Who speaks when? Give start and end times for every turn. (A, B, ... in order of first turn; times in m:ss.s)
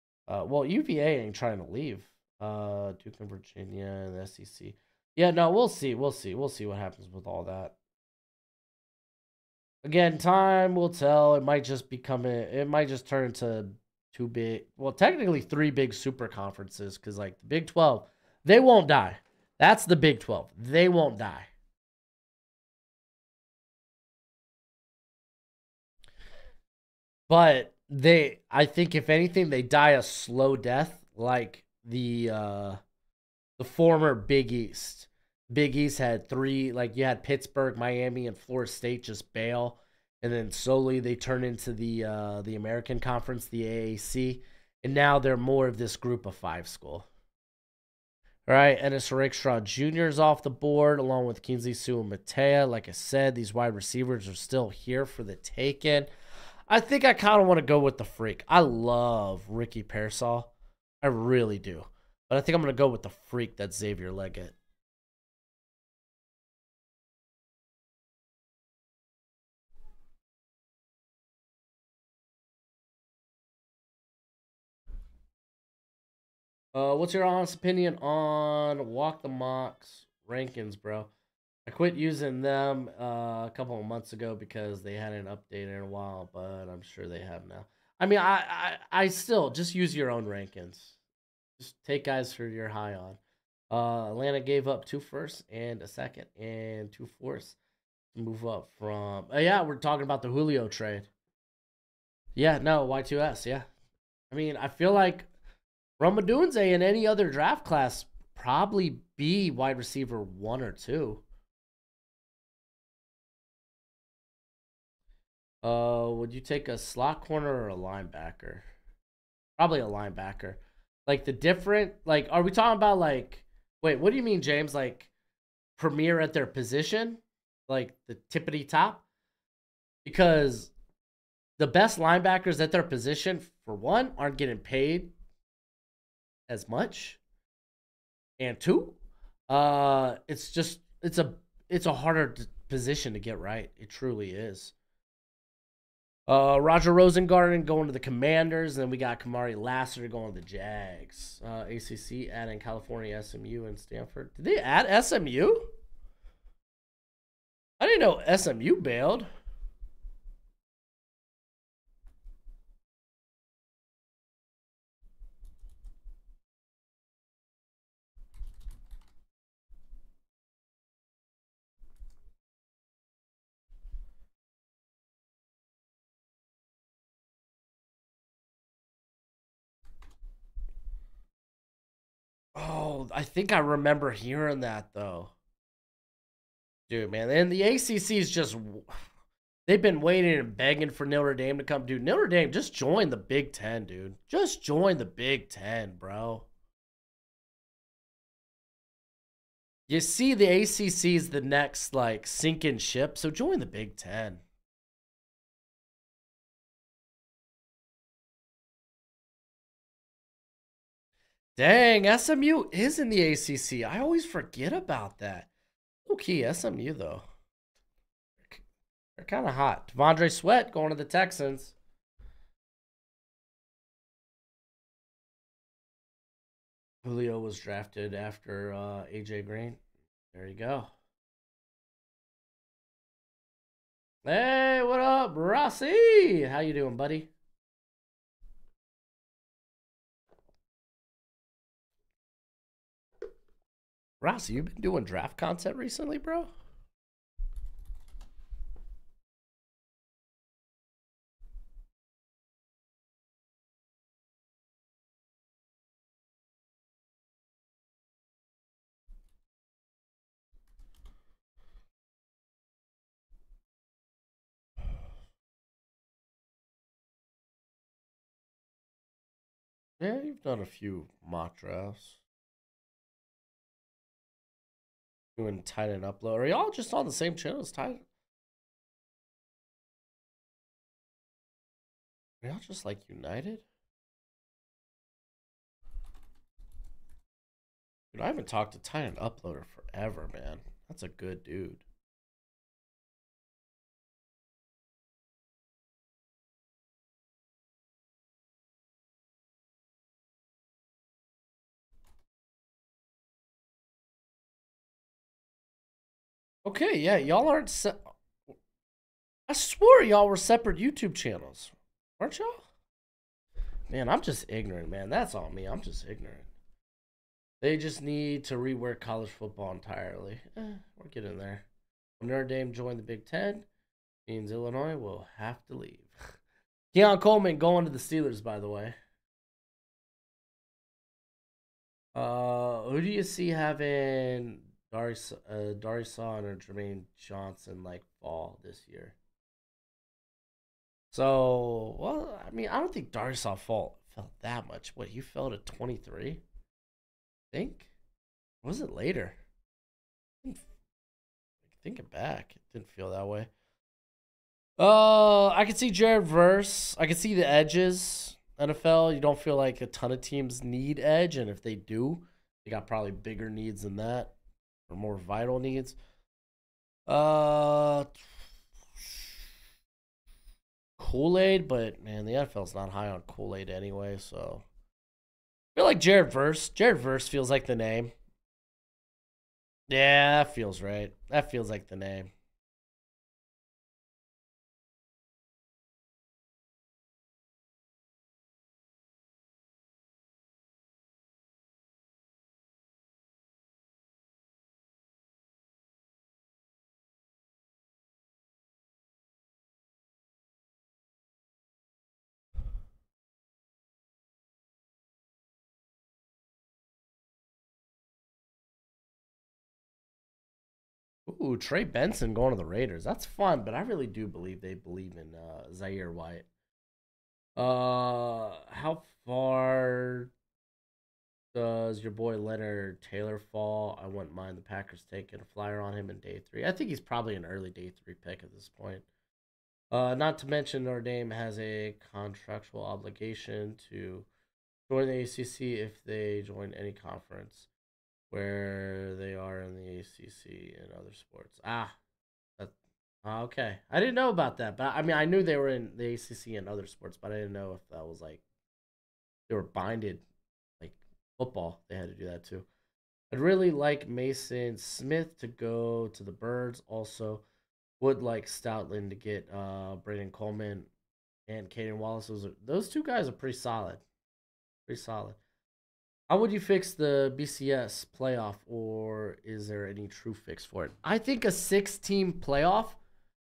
0:00.3-0:07.8 A
0:09.8-0:21.5 A
0:27.3-0:32.8 A
0:33.6-0:47.1 A
0:48.5-0:56.1 A
0:56.7-1:00.5 A
1:01.0-1:04.6 A
1:16.7-1:21.1 A
1:21.6-1:31.0 A
1:31.6-1:33.2 A
1:33.7-1:37.6 A
1:38.1-1:41.1 A
1:42.4-1:43.7 A
1:44.3-1:45.3 A
1:46.0-1:51.2 A
1:55.6-1:58.7 A
1:59.6-2:05.1 A
2:05.8-2:09.0 A
2:10.0-2:10.7 A
2:11.6-2:15.1 A
2:16.5-2:17.2 A
2:18.4-2:19.0 A
2:19.5-2:24.7 A
2:26.3-2:35.7 A
2:37.8-2:39.3 A
3:02.5-3:05.3 A
3:06.9-3:09.0 A
3:09.7-3:16.5 A
3:19.9-3:24.4 A
3:31.6-3:35.5 A
3:36.0-3:37.2 A
3:39.2-3:41.8 A
3:47.0-3:49.8 A
3:50.3-3:50.9 A
3:54.2-3:57.3 A
4:04.2-4:06.5 A
4:30.0-4:32.2 A
4:35.4-4:38.0 A
4:42.4-4:43.6 A
4:48.1-4:51.8 A
5:06.6-5:08.0 A
5:09.5-5:12.6 A
5:13.9-5:16.5 A
5:17.6-5:21.6 A
5:22.2-5:23.7 A
5:24.3-5:26.2 A
5:26.9-5:29.0 A
5:32.1-5:39.1 A
5:41.1-5:46.4 A
5:47.5-5:47.9 A
5:48.6-5:49.4 A
5:51.8-5:53.5 A
5:54.8-6:04.3 A
6:04.9-6:06.0 A
6:07.1-6:08.1 A
6:09.0-6:09.3 A
6:11.0-6:14.6 A
6:15.7-6:18.1 A
6:19.9-6:22.3 A
6:51.3-6:56.4 A
6:57.6-7:00.3 A
7:01.5-7:09.0 A
7:09.9-7:14.3 A
7:14.9-7:17.7 A
7:18.3-7:22.0 A
7:22.6-7:28.4 A
7:29.5-7:30.2 A
7:30.8-7:32.7 A
7:33.3-7:37.4 A
7:38.0-7:40.9 A
7:41.5-7:44.0 A
7:44.9-7:45.4 A
7:46.3-7:53.0 A